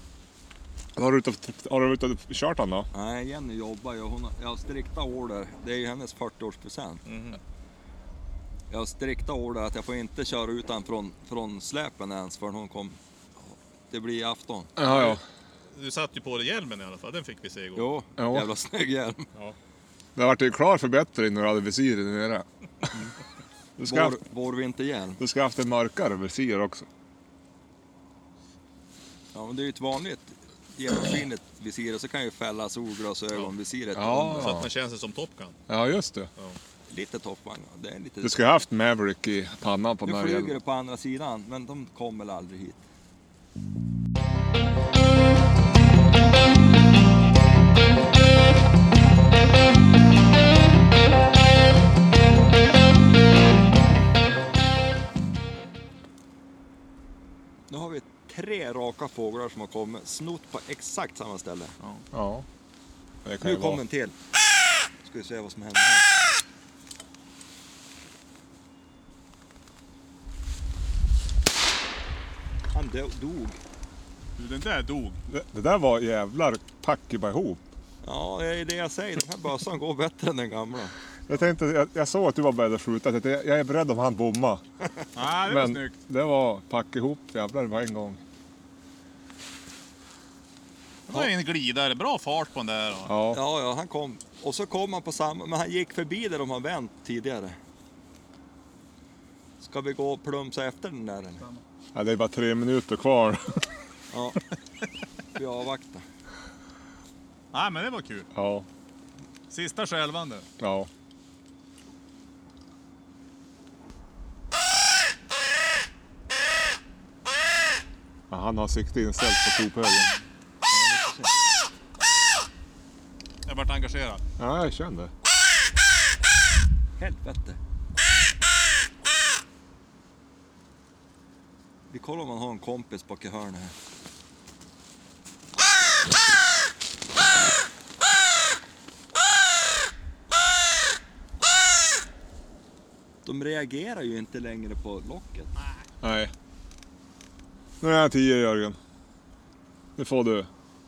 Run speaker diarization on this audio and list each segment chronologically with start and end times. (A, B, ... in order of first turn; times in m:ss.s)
0:01.0-0:02.9 A
0:02.9-0:07.0 B
0:07.0-0:07.4 C
0:08.7-0:14.7 B
0:14.8-0:15.2 A
0:14.8-0:15.2 C
0:15.7-0:17.9 C
0:17.8-0:19.3 B
0:18.2-0:18.5 A
0:20.2-0:22.9 A
0:23.8-0:24.2 A
0:23.8-0:25.2 B
0:25.2-0:26.8 A
0:29.3-0:34.6 B
0:33.9-0:34.7 A
0:34.3-0:35.6 C
0:35.7-0:36.3 A
0:36.9-0:38.4 B
0:38.2-0:40.5 A
0:40.0-0:42.8 B
0:57.7-1:01.7 B
1:02.1-1:02.4 A
1:03.2-1:03.8 A
1:03.4-1:04.1 B
1:05.0-1:06.1 B
1:12.7-1:13.6 B
1:14.4-1:15.2 C
1:15.3-1:17.6 A
1:18.0-1:20.9 B
1:21.3-1:24.6 A
1:25.1-1:25.9 C
1:25.4-1:28.2 A
1:31.1-1:33.1 C
1:33.1-1:33.4 A
1:33.3-1:37.6 B
1:39.6-1:41.4 B
1:41.9-1:43.6 A
1:44.1-1:44.4 B
1:45.3-1:46.0 B
1:47.5-1:48.3 C
1:48.3-1:48.7 A
1:49.5-1:50.5 C
1:50.6-1:50.9 A
1:58.3-2:00.1 A
2:00.7-2:01.3 B
2:03.4-2:04.2 C
2:04.4-2:05.1 A
2:07.0-2:07.6 B
2:11.9-2:13.7 B
2:23.2-2:25.5 B
2:26.0-2:26.3 A
2:27.8-2:28.8 A
2:30.0-2:30.5 A